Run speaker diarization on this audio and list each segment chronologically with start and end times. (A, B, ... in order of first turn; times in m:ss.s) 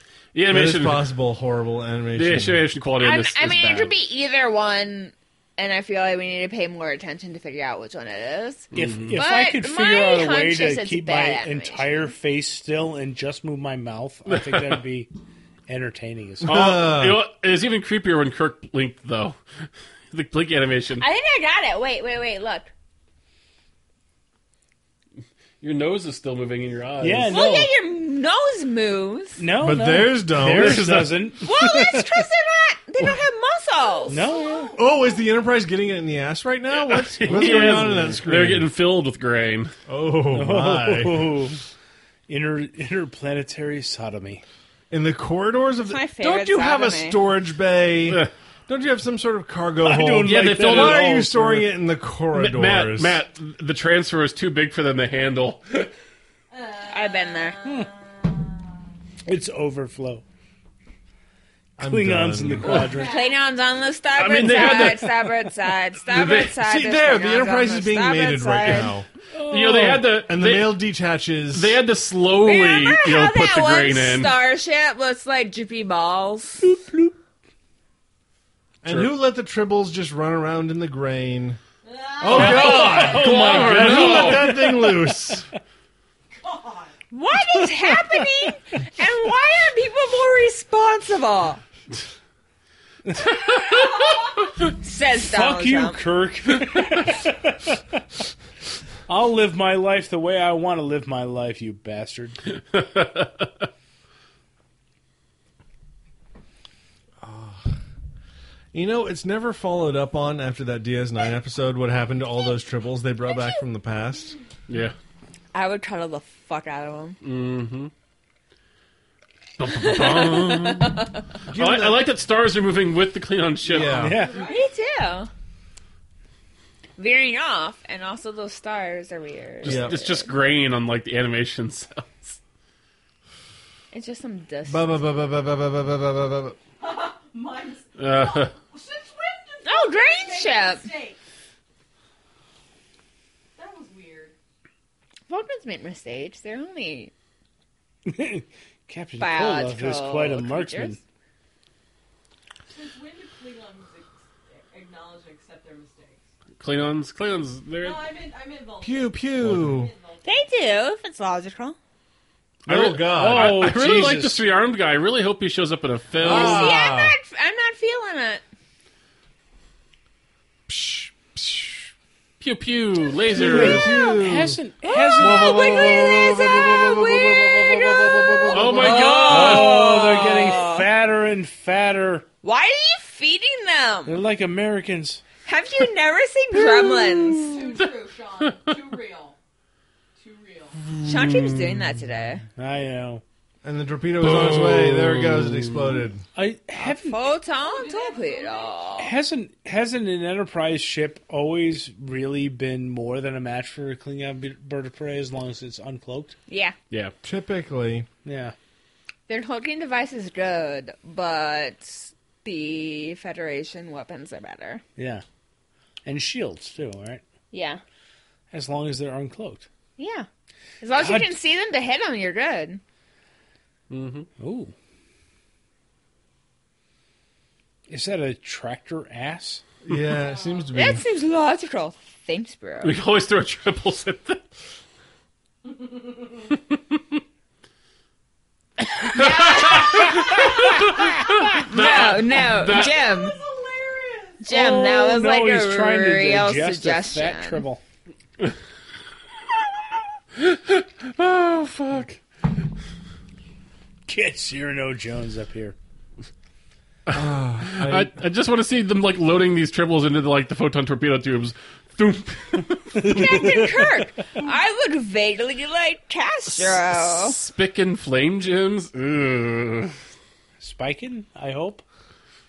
0:00.3-0:01.1 A
0:00.5-0:02.6 B
0:02.2-0:03.9 A
0:03.0-0:12.1 C
0:08.7-0:09.2 A
0:08.7-0:15.1 D
0:14.3-0:14.8 A
0:15.7-0:16.6 D
0:16.4-0:19.4 A
0:16.4-0:17.2 B
0:20.1-0:21.1 A
0:21.0-0:22.7 C
0:25.6-0:27.4 A
0:27.0-0:27.7 D
0:27.3-0:29.4 C
0:29.4-0:32.3 D
0:29.6-0:31.1 B
0:30.4-0:31.3 A
0:31.4-0:34.7 C
0:34.1-0:34.7 D
0:34.8-0:38.7 B
0:36.7-0:39.7 A
0:37.3-0:38.1 D
0:39.9-0:41.5 B
0:40.3-0:41.6 D
0:42.3-0:44.4 D
0:44.9-0:53.2 B
0:45.8-0:47.2 C
0:49.8-0:51.7 D
0:50.2-0:51.1 A
0:52.3-0:55.9 A
0:56.5-0:58.5 E
0:56.9-0:57.6 C
0:59.2-1:00.2 D
1:01.8-1:03.0 B
1:01.8-1:03.2 D
1:02.6-1:03.4 E
1:03.0-1:08.9 C
1:04.1-1:05.1 A
1:06.1-1:06.6 A
1:06.5-1:09.1 B
1:09.3-1:10.1 D
1:09.4-1:10.8 A
1:10.1-1:11.8 B
1:11.5-1:14.3 A
1:12.4-1:16.6 C
1:16.6-1:17.2 D
1:18.8-1:21.6 B
1:18.8-1:19.1 A
1:21.8-1:23.0 E
1:22.2-1:25.5 B
1:22.3-1:24.5 A
1:22.3-1:25.5 D
1:26.3-1:27.0 E
1:27.1-1:31.6 C
1:27.5-1:28.5 D
1:33.2-1:34.3 A
1:33.8-1:34.2 E
1:34.8-1:36.0 C
1:35.2-1:37.8 D
1:39.1-1:42.4 D
1:42.7-1:43.5 A
1:47.2-1:47.8 B
1:48.7-1:54.4 B
1:53.3-1:53.6 C
1:54.7-1:55.0 A
1:55.5-1:57.2 C
1:57.2-1:57.9 A
1:59.6-2:04.3 A
1:59.6-2:01.2 C
2:01.5-2:02.1 B
2:03.7-2:04.2 B
2:03.7-2:04.4 D
2:04.0-2:04.7 E
2:04.5-2:05.3 C
2:07.0-2:10.3 C
2:09.6-2:12.4 A
2:09.6-2:10.0 B
2:13.9-2:15.0 C
2:14.7-2:16.6 B
2:16.8-2:21.2 E
2:18.0-2:18.5 A
2:19.6-2:20.9 C
2:23.6-2:24.4 E
2:25.3-2:27.1 C
2:28.0-2:31.0 D
2:29.2-2:31.0 C
2:32.7-2:36.2 E
2:36.6-2:38.0 A
2:37.8-2:40.5 E
2:38.8-2:39.9 B
2:40.2-2:41.8 C
2:42.7-2:46.7 A
2:42.7-2:43.9 B
2:43.1-2:44.4 D
2:46.2-2:47.1 B
2:46.2-2:48.4 C
2:50.7-2:51.9 B
2:52.4-2:53.9 A
2:53.3-2:54.6 B
2:53.3-2:56.2 D
2:53.9-2:54.2 C
2:54.8-3:00.9 C
2:55.2-2:58.7 B
2:58.5-3:02.3 D
2:58.5-2:59.9 A
3:02.4-3:04.2 C
3:04.1-3:05.2 D
3:05.5-3:07.7 C
3:06.6-3:07.0 D
3:07.3-3:09.4 E
3:10.2-3:10.8 E
3:10.9-3:11.8 A
3:11.0-3:12.4 C
3:12.6-3:13.2 D
3:13.6-3:16.2 B
3:14.2-3:16.0 A
3:16.4-3:17.3 D
3:16.7-3:19.1 C
3:17.5-3:19.0 E
3:19.0-3:26.4 D
3:26.5-3:26.8 C
3:27.2-3:28.1 B
3:28.2-3:28.6 D
3:29.3-3:34.8 C
3:35.0-3:35.2 D
3:36.0-3:37.2 D
3:37.5-3:37.8 C
3:38.5-3:39.7 D
3:40.0-3:40.3 C
3:40.8-3:42.8 C
3:40.9-3:41.3 D
3:43.9-3:44.3 A
3:44.4-3:44.7 D
3:47.9-3:49.6 D
3:49.8-3:51.0 B
3:50.3-3:50.7 E
3:50.7-3:53.0 C
3:52.8-3:54.4 A
3:59.1-4:03.0 A
3:59.2-4:01.0 C
4:01.6-4:03.4 C
4:02.6-4:04.5 E
4:04.4-4:07.6 C
4:04.5-4:07.8 D
4:10.4-4:12.2 A
4:14.1-4:15.8 D
4:17.1-4:23.6 A
4:17.1-4:18.1 B
4:22.9-4:24.0 D
4:23.0-4:27.4 C
4:26.6-4:30.0 A
4:30.6-4:31.8 D